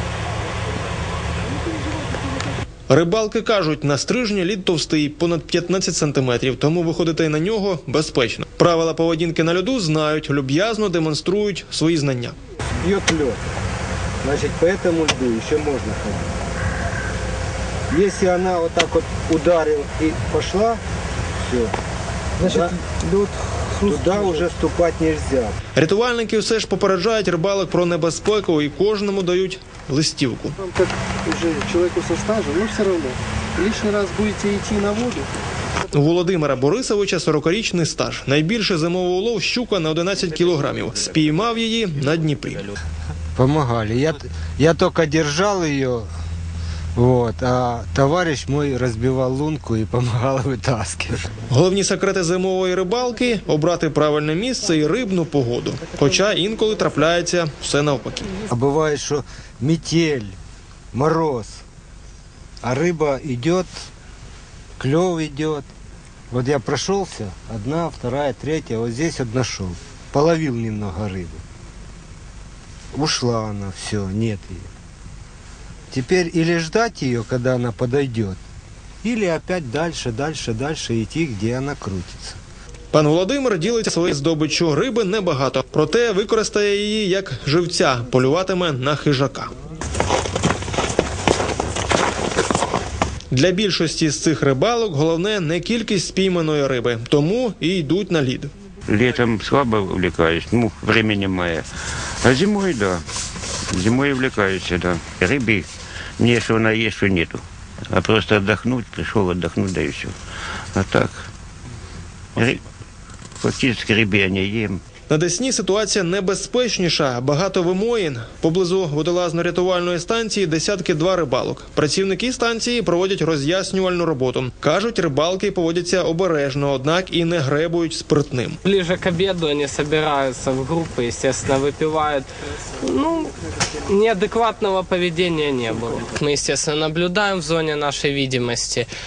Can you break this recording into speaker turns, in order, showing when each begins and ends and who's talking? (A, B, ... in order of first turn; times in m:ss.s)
0:02.9-0:12.3 A
0:12.8-0:13.4 B
0:14.2-0:16.4 B
0:17.9-0:20.8 B
0:21.4-0:21.7 B
0:22.4-0:22.8 B
0:22.4-0:24.4 C
0:23.8-0:25.5 B
0:25.8-0:30.6 A
0:30.6-0:35.3 C
0:35.9-0:42.7 A
0:43.4-0:46.1 B
0:47.0-0:51.2 B
0:51.5-0:58.3 A
0:58.5-1:00.4 B
1:00.9-1:01.6 B
1:02.6-1:03.7 B
1:04.8-1:05.7 B
1:06.3-1:11.4 B
1:12.9-1:14.7 B
1:15.9-1:18.4 B
1:19.0-1:22.4 B
1:22.9-1:29.5 A
1:33.3-1:38.5 A
1:38.9-1:41.6 D
1:42.2-1:43.0 D
1:43.7-1:45.7 D
1:46.2-1:50.1 D
1:50.7-1:51.3 D
1:52.4-1:52.6 D
1:53.4-1:54.8 D
1:55.1-2:08.6 A
2:08.6-2:12.3 E
2:12.8-2:13.3 E
2:13.8-2:18.9 E